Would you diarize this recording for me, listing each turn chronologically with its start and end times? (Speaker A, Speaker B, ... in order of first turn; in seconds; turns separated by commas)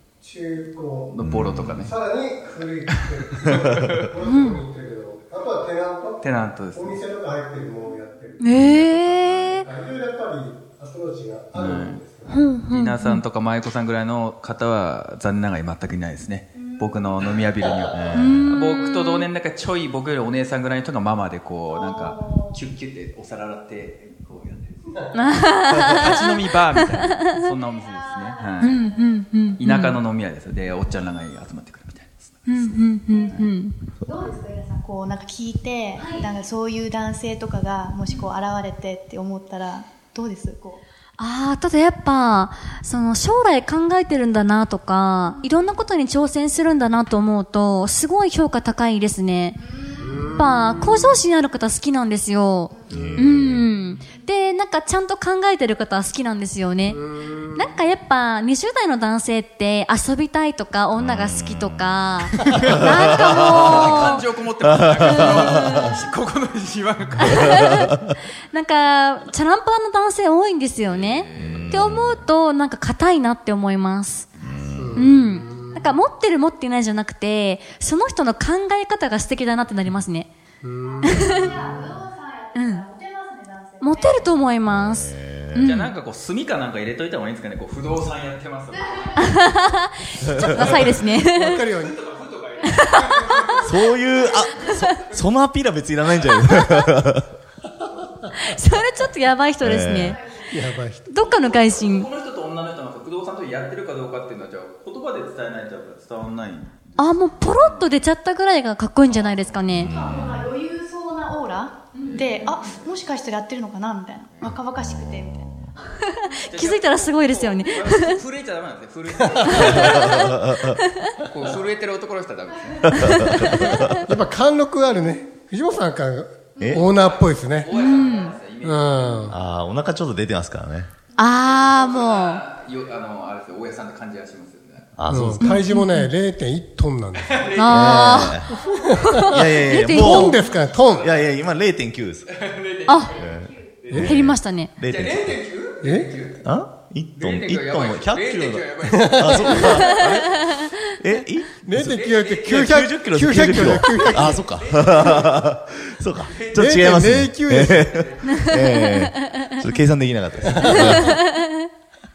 Speaker A: 0.2-1.1, Speaker B: 1.1-1.9, Speaker C: 1.2-1.8, Speaker A: 1.7-12.4, Speaker B: 3.3-4.0, Speaker D: 4.2-4.6, Speaker B: 6.2-7.0, Speaker D: 8.4-9.7, Speaker B: 11.5-12.0, Speaker D: 12.3-13.2, Speaker B: 12.7-25.1, Speaker C: 17.9-18.6, Speaker D: 18.1-19.2, Speaker E: 21.7-22.5, Speaker D: 25.1-27.1, Speaker B: 25.7-28.8, Speaker E: 27.4-29.3, Speaker D: 28.6-30.0, Speaker B: 29.6-33.5, Speaker D: 32.5-33.9, Speaker E: 33.1-33.4, Speaker E: 34.0-40.8, Speaker D: 36.0-36.2, Speaker D: 41.2-49.6, Speaker E: 49.8-50.3, Speaker A: 50.0-50.7, Speaker D: 50.3-57.0, Speaker E: 52.8-53.1, Speaker C: 52.9-53.7, Speaker A: 56.9-57.7, Speaker D: 57.5-64.2, Speaker C: 61.0-64.0, Speaker B: 63.4-67.8, Speaker C: 64.7-65.9, Speaker D: 65.0-66.0, Speaker D: 67.2-74.3, Speaker B: 70.8-71.9, Speaker C: 71.3-72.3, Speaker B: 74.4-75.2, Speaker C: 74.5-74.9, Speaker A: 74.8-75.9, Speaker D: 75.0-80.3, Speaker A: 80.6-82.0, Speaker E: 80.8-84.3, Speaker D: 81.0-81.5, Speaker D: 82.5-82.9, Speaker D: 83.8-85.9, Speaker C: 84.6-85.7, Speaker B: 85.6-89.6, Speaker E: 88.9-89.5, Speaker D: 89.2-91.7, Speaker C: 90.2-90.9, Speaker B: 90.9-94.0, Speaker A: 91.3-92.0, Speaker D: 92.7-93.7, Speaker C: 93.6-97.3, Speaker D: 94.6-94.9, Speaker B: 94.6-95.3, Speaker D: 96.2-96.9, Speaker D: 98.3-100.2, Speaker C: 99.6-100.2, Speaker A: 100.5-101.1, Speaker D: 101.1-102.1, Speaker B: 101.2-107.9, Speaker D: 107.0-109.9, Speaker B: 109.0-110.2, Speaker C: 109.7-110.5, Speaker E: 109.8-115.8, Speaker B: 112.0-112.9, Speaker C: 114.7-115.7, Speaker D: 116.2-118.2, Speaker B: 116.5-120.3, Speaker A: 119.2-119.5, Speaker C: 119.5-120.8, Speaker D: 119.6-121.2, Speaker B: 121.3-123.8, Speaker C: 122.9-124.0, Speaker D: 123.1-124.0, Speaker A: 123.9-127.8, Speaker C: 126.6-126.8, Speaker B: 126.7-129.4, Speaker D: 127.7-128.3, Speaker A: 128.6-129.4, Speaker C: 129.3-130.9, Speaker D: 131.2-132.4, Speaker B: 131.5-134.9, Speaker C: 135.0-135.5, Speaker A: 135.1-137.5, Speaker D: 135.4-136.1, Speaker B: 137.3-138.6, Speaker D: 137.6-140.4, Speaker C: 137.7-138.6, Speaker A: 138.6-141.1, Speaker C: 139.3-140.4, Speaker B: 140.4-141.1, Speaker C: 140.9-142.3, Speaker B: 142.3-144.2, Speaker D: 142.9-143.3, Speaker C: 143.1-145.4, Speaker D: 143.9-144.7, Speaker B: 144.8-146.4, Speaker A: 145.8-146.2, Speaker C: 146.4-161.2, Speaker B: 147.2-150.1, Speaker A: 148.8-150.1, Speaker D: 149.5-150.9, Speaker A: 151.6-154.4, Speaker B: 151.8-155.5, Speaker B: 156.1-158.6, Speaker A: 156.5-157.9, Speaker D: 158.2-159.6, Speaker B: 160.4-160.8, Speaker A: 160.4-161.0, Speaker D: 160.6-161.7